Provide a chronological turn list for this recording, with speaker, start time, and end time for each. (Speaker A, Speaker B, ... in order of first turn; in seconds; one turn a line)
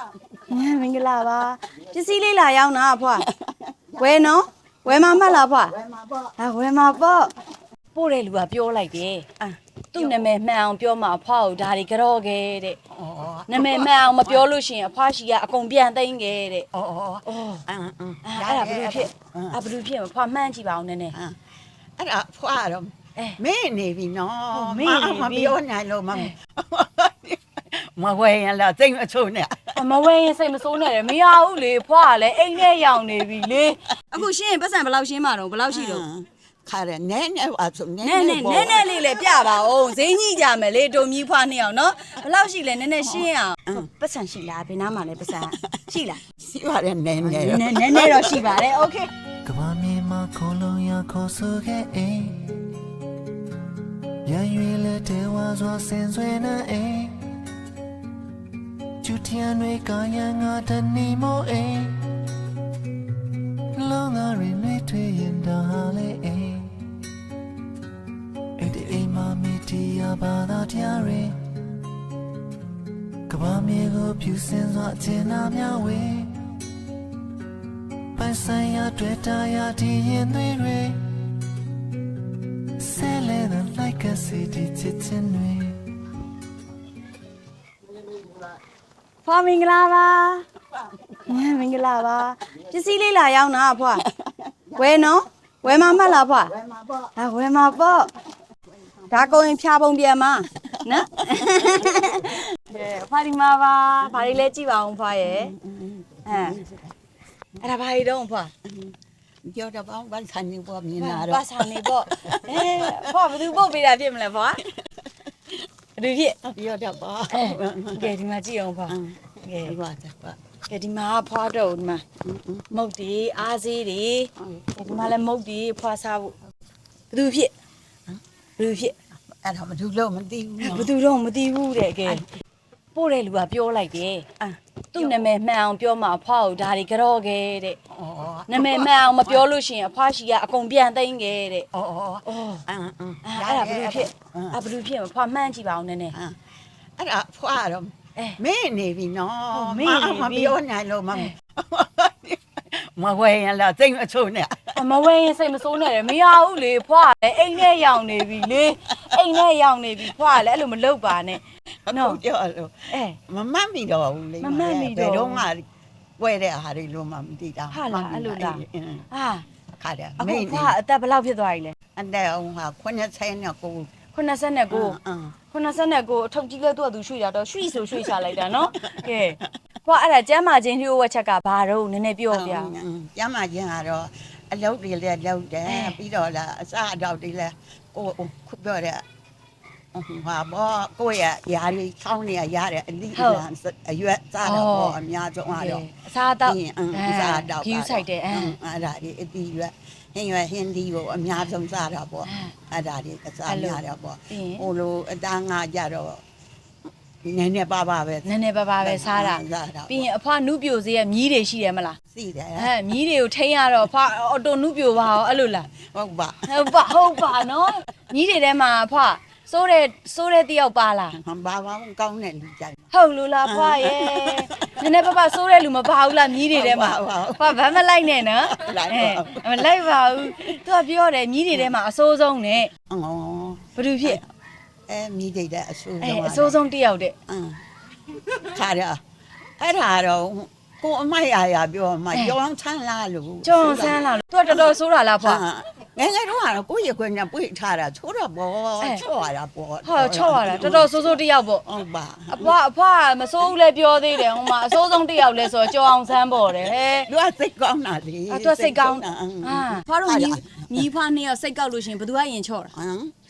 Speaker A: 0.5-3.2
Speaker B: 3.3-4.3
Speaker A: 4.0-5.7
Speaker B: 4.8-6.3
Speaker A: 6.4-7.3
Speaker A: 7.9-12.8
Speaker B: 12.9-14.5
Speaker A: 13.5-16.6
Speaker B: 16.7-19.6
Speaker A: 17.2-17.6
Speaker A: 18.2-21.1
Speaker B: 22.0-29.8
Speaker A: 24.5-25.5
Speaker A: 29.7-36.0
Speaker B: 35.7-39.0
Speaker A: 38.0-46.2
Speaker B: 43.0-43.9
Speaker B: 46.4-48.5
Speaker A: 47.2-49.1
Speaker C: 49.4-52.6
Speaker C: 54.2-57.3
Speaker C: 59.0-62.1
Speaker C: 63.7-66.8
Speaker C: 68.6-71.6
Speaker C: 73.3-76.3
Speaker C: 78.1-81.2
Speaker C: 82.8-85.8
Speaker A: 89.2-90.4
Speaker A: 91.2-94.1
Speaker B: 94.1-95.1
Speaker A: 94.7-96.5
Speaker B: 95.6-97.1
Speaker A: 97.2-98.1
Speaker B: 98.8-99.3
Speaker A: 99.1-105.5
Speaker B: 100.6-102.4
Speaker B: 105.2-106.9
Speaker A: 106.2-106.6
Speaker A: 107.6-108.5
Speaker B: 108.6-113.3
Speaker A: 111.0-114.6
Speaker B: 114.7-115.0
Speaker A: 116.0-116.4
Speaker B: 116.4-118.1
Speaker A: 117.3-119.8
Speaker B: 118.9-120.4
Speaker A: 120.7-122.0
Speaker B: 122.2-122.7
Speaker A: 122.7-126.3
Speaker B: 124.4-124.7
Speaker A: 127.1-127.5
Speaker A: 128.6-128.9
Speaker B: 129.3-130.9
Speaker A: 130.6-132.2
Speaker A: 132.9-137.8
Speaker B: 137.9-139.5
Speaker A: 138.5-141.7
Speaker B: 141.7-144.6
Speaker A: 142.2-142.6
Speaker A: 143.2-146.2
Speaker B: 147.0-154.8
Speaker A: 149.5-150.6
Speaker A: 154.7-162.2
Speaker B: 161.8-165.6
Speaker A: 162.9-163.2
Speaker A: 164.4-165.4
Speaker B: 166.2-169.1
Speaker A: 167.7-169.4
Speaker B: 169.8-170.8
Speaker A: 170.2-171.7
Speaker B: 171.9-173.9
Speaker A: 174.1-175.0
Speaker B: 174.7-175.3
Speaker A: 175.5-182.7
Speaker B: 178.8-179.1
Speaker B: 182.3-189.0
Speaker A: 185.7-186.0
Speaker B: 189.9-195.8
Speaker A: 193.1-193.4
Speaker A: 194.4-195.0
Speaker A: 195.5-198.6
Speaker B: 196.4-206.2
Speaker A: 202.2-202.5
Speaker A: 203.5-204.7
Speaker B: 207.2-208.2
Speaker A: 208.2-212.0
Speaker B: 208.8-210.1
Speaker B: 212.1-212.7
Speaker A: 212.6-215.7
Speaker B: 215.8-217.1
Speaker A: 216.5-221.2
Speaker B: 221.1-222.8
Speaker A: 222.9-232.7
Speaker B: 223.4-225.0
Speaker B: 226.5-227.6
Speaker B: 228.5-229.7
Speaker B: 232.9-234.2
Speaker A: 233.8-234.2
Speaker B: 234.9-236.6
Speaker A: 236.0-237.1
Speaker B: 237.3-237.6
Speaker B: 238.2-239.0
Speaker B: 239.6-244.0
Speaker A: 243.4-245.4
Speaker B: 245.2-252.5
Speaker A: 249.8-251.6
Speaker A: 252.3-257.1
Speaker B: 254.2-255.7
Speaker B: 257.1-260.8
Speaker A: 258.3-262.7
Speaker B: 262.7-263.1